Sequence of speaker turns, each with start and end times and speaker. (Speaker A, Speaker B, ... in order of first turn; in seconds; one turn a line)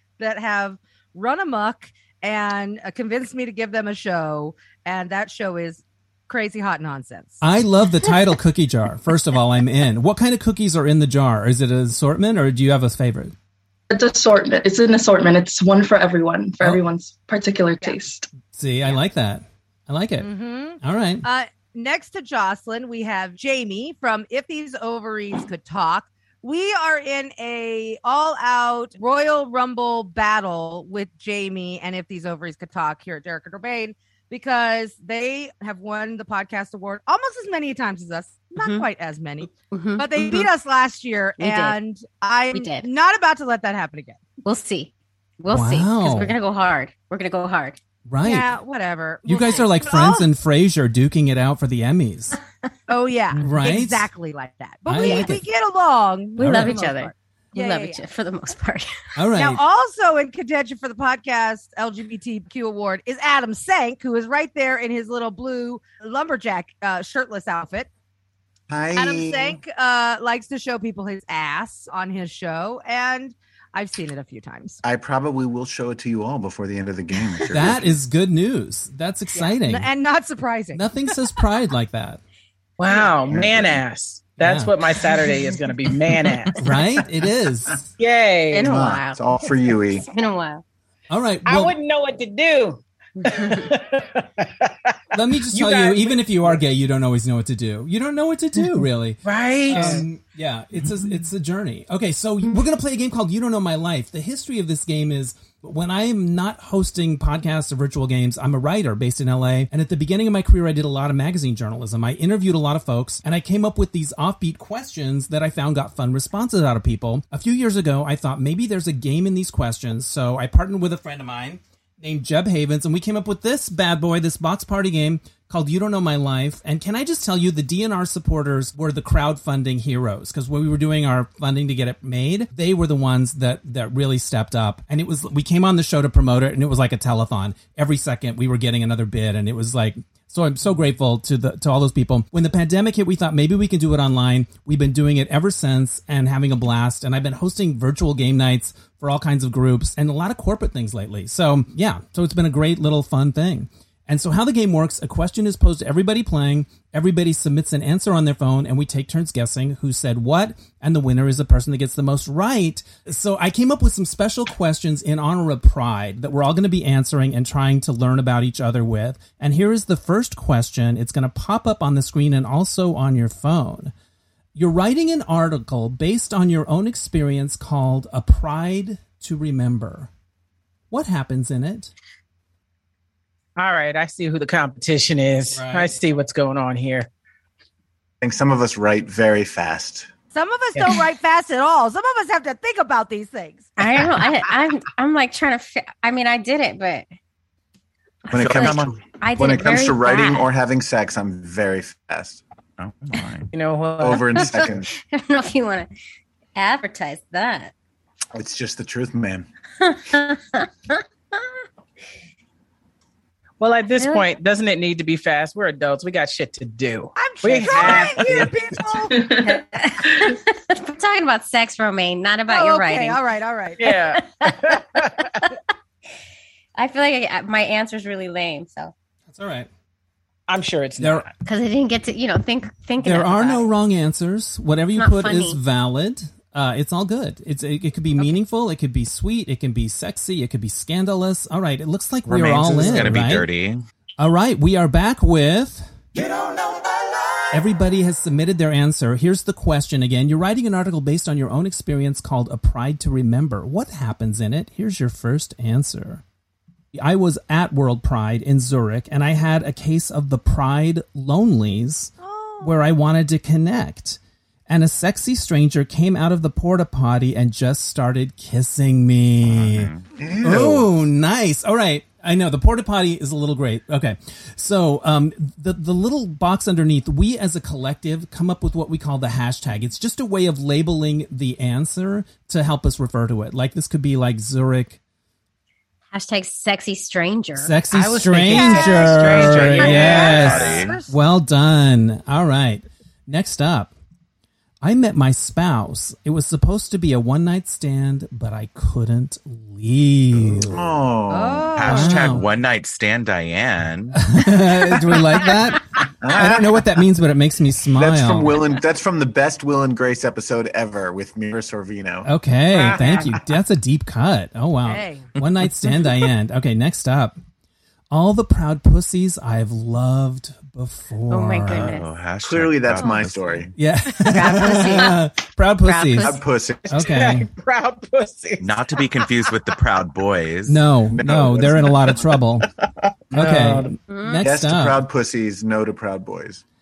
Speaker A: 0.2-7.4
Speaker B: 7.4-13.3
Speaker C: 13.9-18.2
Speaker B: 18.5-20.3
Speaker A: 20.2-44.2
Speaker B: 20.8-21.2
Speaker D: 38.6-38.9
Speaker D: 39.7-40.5
Speaker D: 41.4-41.8
Speaker D: 42.5-42.9
Speaker D: 44.4-47.8
Speaker B: 45.5-46.3
Speaker B: 48.1-48.5
Speaker A: 48.2-50.3
Speaker B: 49.2-52.4
Speaker A: 52.9-58.0
Speaker B: 53.4-54.1
Speaker B: 54.9-55.4
Speaker D: 55.0-55.3
Speaker D: 56.3-59.0
Speaker B: 56.4-56.8
Speaker B: 59.1-59.6
Speaker A: 59.3-67.9
Speaker E: 68.7-69.6
Speaker A: 69.0-74.8
Speaker E: 74.8-78.0
Speaker B: 77.5-79.9
Speaker A: 79.5-81.2
Speaker B: 80.7-82.2
Speaker F: 82.8-86.8
Speaker E: 83.3-83.7
Speaker B: 84.4-84.7
Speaker B: 86.6-87.9
Speaker F: 88.0-88.7
Speaker D: 88.5-90.6
Speaker E: 88.6-90.0
Speaker B: 91.1-91.7
Speaker F: 91.5-96.6
Speaker D: 93.2-93.7
Speaker B: 95.1-173.9
Speaker F: 99.2-100.0
Speaker B: 174.5-180.1
Speaker B: 180.9-181.9
Speaker F: 183.6-187.1
Speaker B: 185.5-185.9
Speaker E: 188.2-190.1
Speaker A: 190.3-193.7
Speaker F: 190.8-191.0
Speaker D: 193.8-197.1
Speaker E: 198.3-202.4
Speaker G: 198.3-199.0
Speaker D: 198.5-200.5
Speaker G: 202.8-203.5
Speaker F: 203.5-204.6
Speaker E: 204.0-204.9
Speaker D: 204.3-205.9
Speaker D: 206.5-207.7
Speaker E: 208.3-209.4
Speaker D: 209.8-211.5
Speaker F: 213.6-218.8
Speaker D: 214.0-214.3
Speaker A: 217.1-219.2
Speaker C: 219.1-219.6
Speaker D: 219.3-223.2
Speaker A: 222.5-223.9
Speaker F: 223.8-225.4
Speaker D: 224.1-225.1
Speaker D: 226.8-228.9
Speaker B: 229.3-229.7
Speaker F: 230.5-231.3
Speaker B: 231.0-231.3
Speaker D: 231.4-233.6
Speaker B: 233.0-243.4
Speaker D: 235.0-235.6
Speaker G: 242.3-243.8
Speaker E: 242.3-243.2
Speaker B: 244.2-245.9
Speaker B: 247.5-256.2
Speaker B: 256.9-269.9
Speaker A: 262.2-262.7
Speaker G: 269.5-270.1
Speaker E: 270.2-270.9
Speaker B: 270.4-285.0
Speaker D: 286.1-287.8
Speaker B: 287.6-293.9
Speaker F: 287.9-290.7
Speaker A: 288.5-291.1
Speaker G: 290.3-291.0
Speaker B: 294.8-300.8
Speaker E: 300.6-301.9
Speaker A: 301.3-302.4
Speaker G: 301.7-304.2
Speaker B: 301.8-302.5
Speaker B: 304.1-308.5
Speaker E: 306.2-306.8
Speaker E: 307.9-312.3
Speaker B: 312.2-317.4
Speaker F: 312.7-313.3
Speaker D: 312.9-313.3
Speaker A: 314.8-315.3
Speaker B: 318.1-322.0
Speaker D: 321.3-322.1
Speaker G: 321.6-323.7
Speaker E: 322.4-323.7
Speaker A: 323.0-323.3
Speaker B: 323.8-326.4
Speaker D: 324.2-325.3
Speaker D: 325.8-326.4
Speaker E: 326.2-327.4
Speaker B: 326.9-327.5
Speaker F: 327.0-329.6
Speaker G: 328.6-330.9
Speaker B: 330.7-332.7
Speaker E: 331.1-332.2
Speaker F: 333.3-334.0
Speaker B: 333.3-335.0
Speaker D: 334.1-334.4
Speaker E: 334.4-336.6